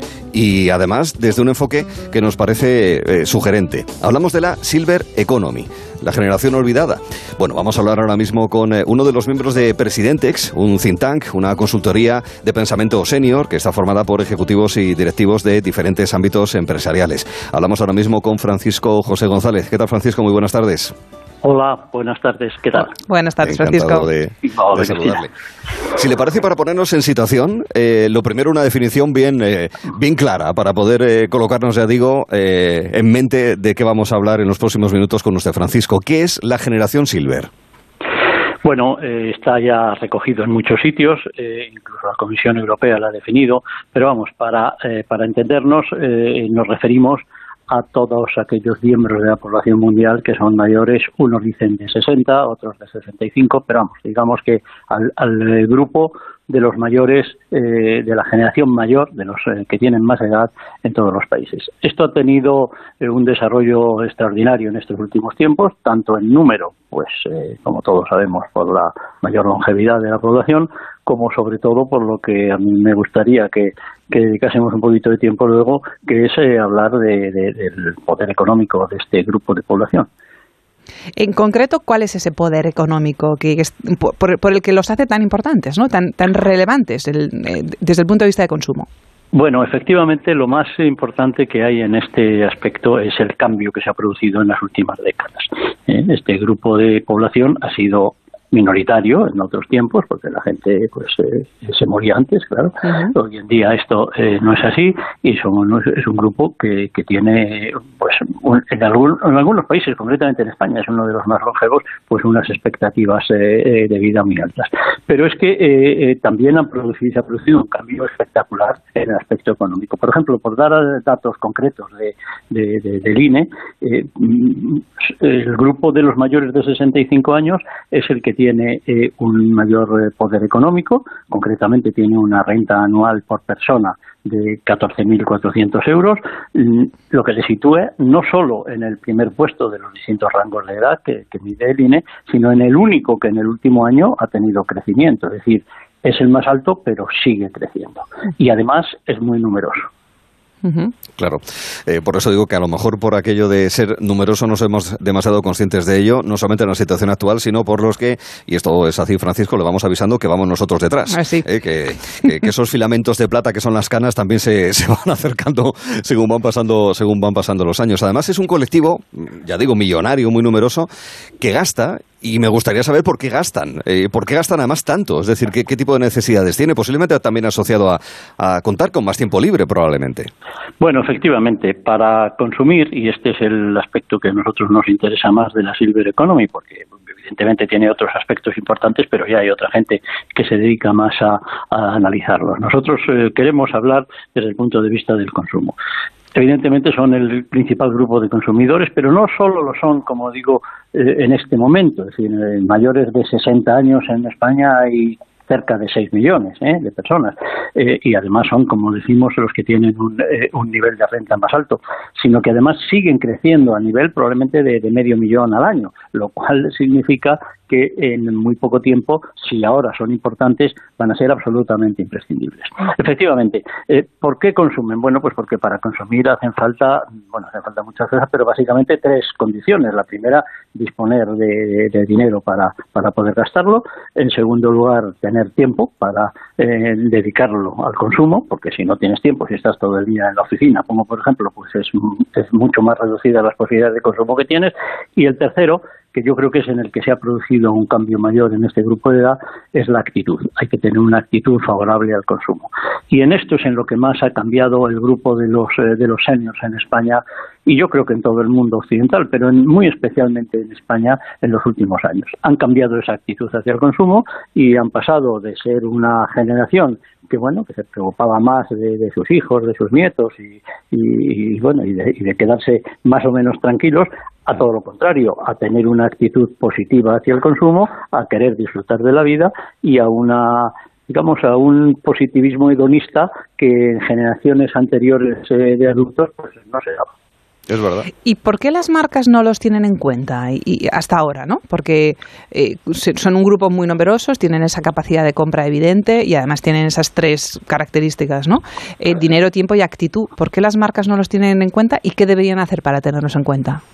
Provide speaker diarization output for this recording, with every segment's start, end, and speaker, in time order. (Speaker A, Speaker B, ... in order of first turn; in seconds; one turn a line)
Speaker A: 0.3-20.9
Speaker B: 21.4-22.9
Speaker C: 23.0-24.1
Speaker A: 23.4-25.3
Speaker B: 24.4-25.2
Speaker A: 25.9-37.5
Speaker B: 38.6-80.1
Speaker C: 81.2-88.9
Speaker B: 89.3-149.9
Speaker C: 102.9-103.1
Speaker C: 150.6-150.9
Speaker A: 151.2-170.9
Speaker C: 161.1-161.5
Speaker A: 171.4-180.3
Speaker B: 180.8-195.8
Speaker B: 196.3-287.1
Speaker A: 287.7-288.1
Speaker C: 288.2-303.8